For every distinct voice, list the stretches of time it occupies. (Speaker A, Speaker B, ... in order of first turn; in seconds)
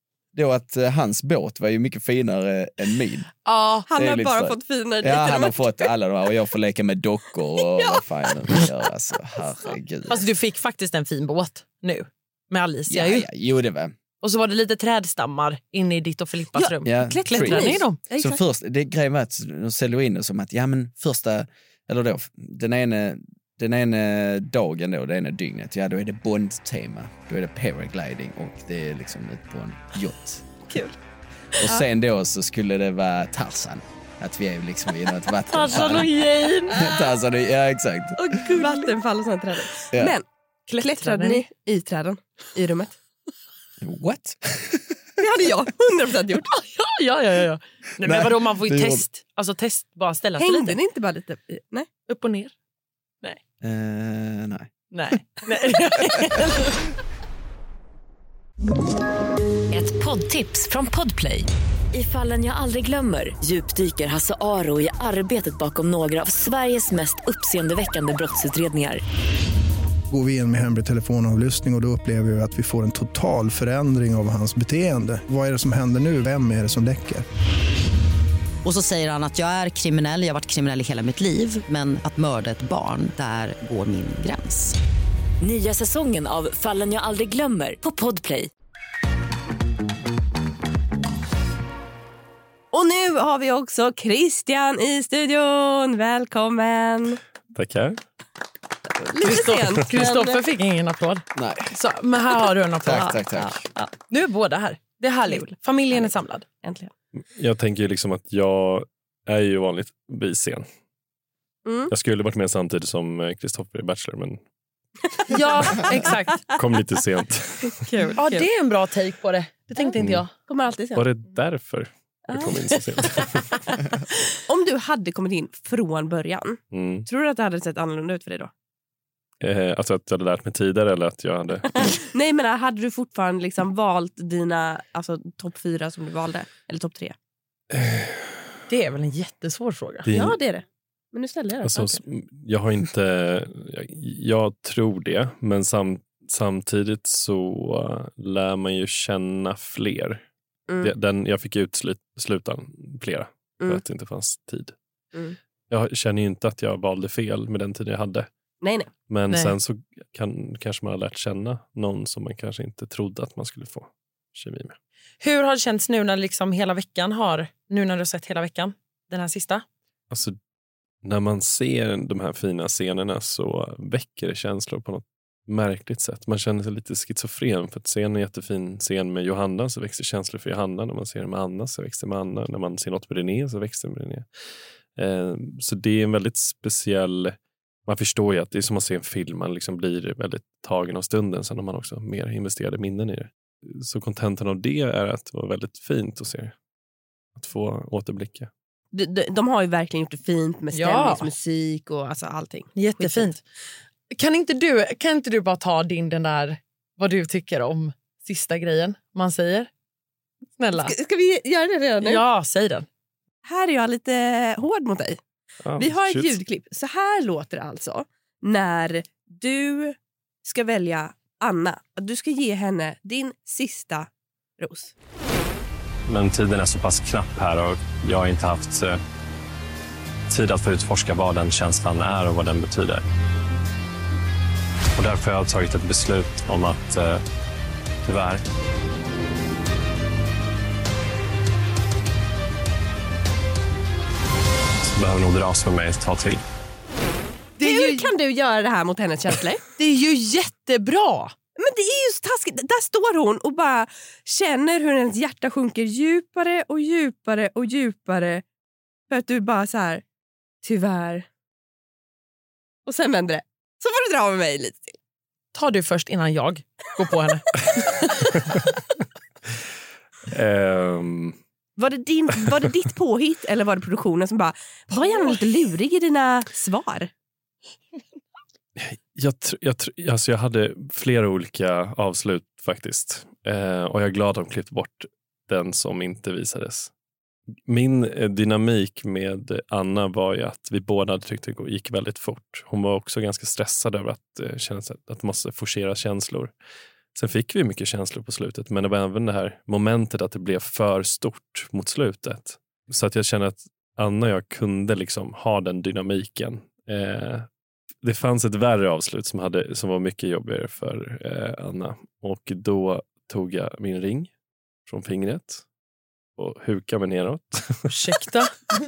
Speaker A: 0.3-3.3, 4.0-10.2, 12.9-13.9, 16.8-30.5, 31.6-36.1, 36.7-38.2, 43.8-45.0, 48.0-49.0, 53.6-55.2, 101.3-101.7, 102.8-103.7
Speaker B: 3.5-3.9, 10.1-13.3, 14.2-18.0, 35.5-36.8, 38.5-38.9, 40.7-41.4, 46.5-50.8, 52.1-52.5, 54.9-56.8, 99.2-103.2, 104.1-106.4, 115.3-116.4, 117.9-120.3, 138.7-140.1, 159.3-159.6, 165.2-169.6, 200.7-201.3, 202.7-203.4, 204.1-209.7, 210.6-210.9, 212.0-212.8, 247.6-248.1, 249.8-251.3, 265.5-268.3, 317.9-318.5
Speaker C: 3.9-5.9, 7.7-8.0, 16.6-18.4, 30.7-31.0, 36.7-37.0, 38.2-40.2, 40.8-42.9, 45.2-46.5, 50.4-51.9, 92.7-97.2, 99.0-100.4, 103.6-103.9, 105.3-106.0, 106.6-106.9, 111.6-111.9, 115.3-115.8, 117.8-118.5, 120.5-121.0, 122.3-123.2, 124.5-128.5, 131.8-137.2, 140.1-141.8, 158.6-158.9, 198.9-203.3, 210.8-212.2, 213.4-215.2, 215.8-224.9, 247.6-249.6, 251.6-258.4, 259.1-260.0, 260.6-261.3, 262.9-264.9, 271.8-277.1
Speaker D: 59.7-69.0, 85.4-88.5
Speaker E: 70.1-77.2
Speaker F: 78.6-84.8
Speaker G: 97.5-98.0, 107.3-110.7, 111.9-114.4, 116.5-117.8, 120.0-120.2, 121.0-123.6, 126.7-127.0, 129.4-131.9, 137.7-138.3, 140.1-140.4, 141.6-150.2, 150.8-154.7, 155.7-158.3, 159.1-164.8, 171.0-184.2, 185.0-187.3, 187.9-196.5, 197.3-198.5, 215.6-216.4, 270.3-271.4, 278.8-286.9, 287.7-296.5, 297.1-307.5, 308.0-314.3, 314.9-315.6, 316.4-317.9
Speaker H: 226.1-229.0, 230.3-233.0, 234.9-237.2, 238.0-238.4, 244.8-246.4